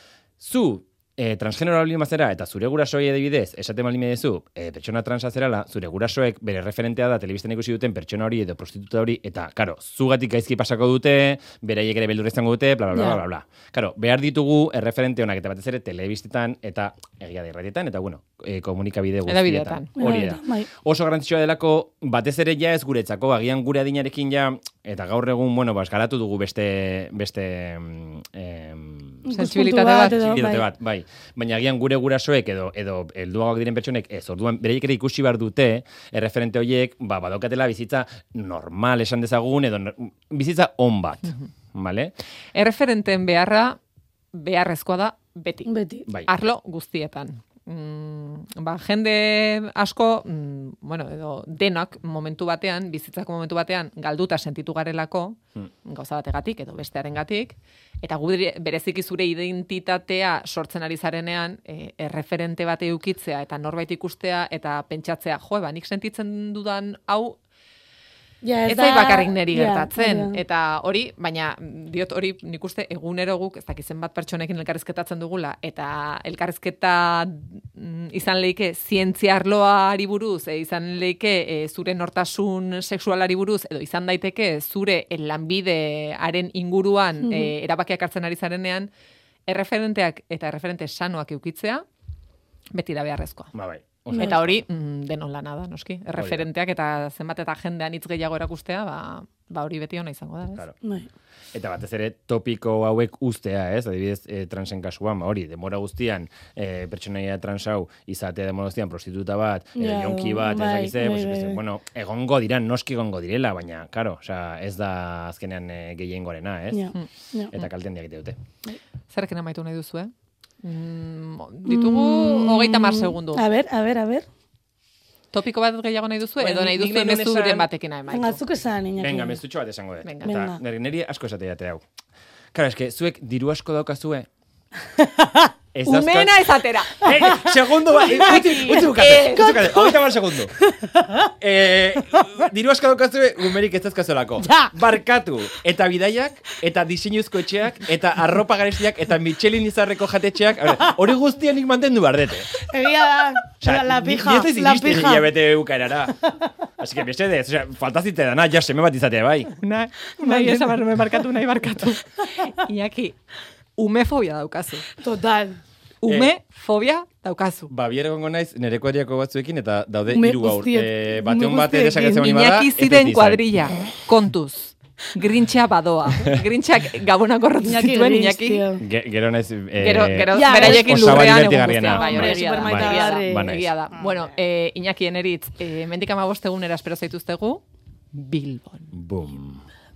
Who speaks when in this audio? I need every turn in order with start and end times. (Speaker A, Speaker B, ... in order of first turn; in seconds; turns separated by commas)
Speaker A: 0.4-29.3, Speaker B: 12.9-13.2, Speaker C: 19.2-20.0, Speaker B: 20.0-20.7, Speaker B: 29.2-30.7, Speaker C: 29.3-30.4, Speaker A: 30.1-42.1, Speaker C: 42.5-43.8, Speaker C: 44.3-45.7, Speaker B: 45.6-46.1, Speaker C: 46.2-67.4, Speaker B: 68.4-70.4, Speaker C: 68.7-88.9, Speaker B: 87.2-87.5, Speaker C: 89.5-91.8, Speaker C: 92.7-93.5, Speaker A: 93.5-94.6, Speaker C: 94.1-100.6, Speaker A: 96.2-96.5, Speaker B: 100.8-101.1, Speaker A: 101.5-116.9, Speaker B: 109.8-111.6, Speaker B: 116.7-117.6, Speaker C: 116.9-117.7, Speaker A: 117.5-118.4, Speaker C: 119.1-120.1, Speaker C: 120.6-123.5, Speaker B: 121.7-124.2, Speaker C: 125.3-128.4, Speaker A: 126.4-127.7, Speaker B: 128.1-129.4, Speaker A: 129.0-131.8, Speaker C: 130.0-130.4, Speaker B: 130.2-130.6, Speaker A: 132.5-134.3, Speaker B: 135.0-135.5, Speaker A: 135.7-136.4, Speaker C: 135.9-137.1, Speaker A: 137.0-140.5, Speaker B: 137.2-138.7, Speaker C: 138.2-139.6, Speaker B: 139.3-141.3, Speaker A: 141.4-152.5, Speaker B: 144.4-144.7, Speaker B: 152.6-155.4, Speaker A: 153.6-156.2, Speaker B: 156.2-156.5, Speaker A: 156.8-159.5, Speaker C: 159.6-163.2, Speaker B: 160.2-161.2, Speaker C: 163.8-164.9, Speaker B: 165.0-165.6, Speaker C: 166.0-167.7, Speaker A: 166.1-166.3, Speaker A: 167.7-173.7, Speaker B: 170.1-172.3, Speaker C: 172.2-178.6, Speaker B: 177.6-178.8, Speaker A: 178.8-183.7, Speaker C: 179.8-188.9, Speaker B: 180.3-183.6, Speaker A: 188.9-189.7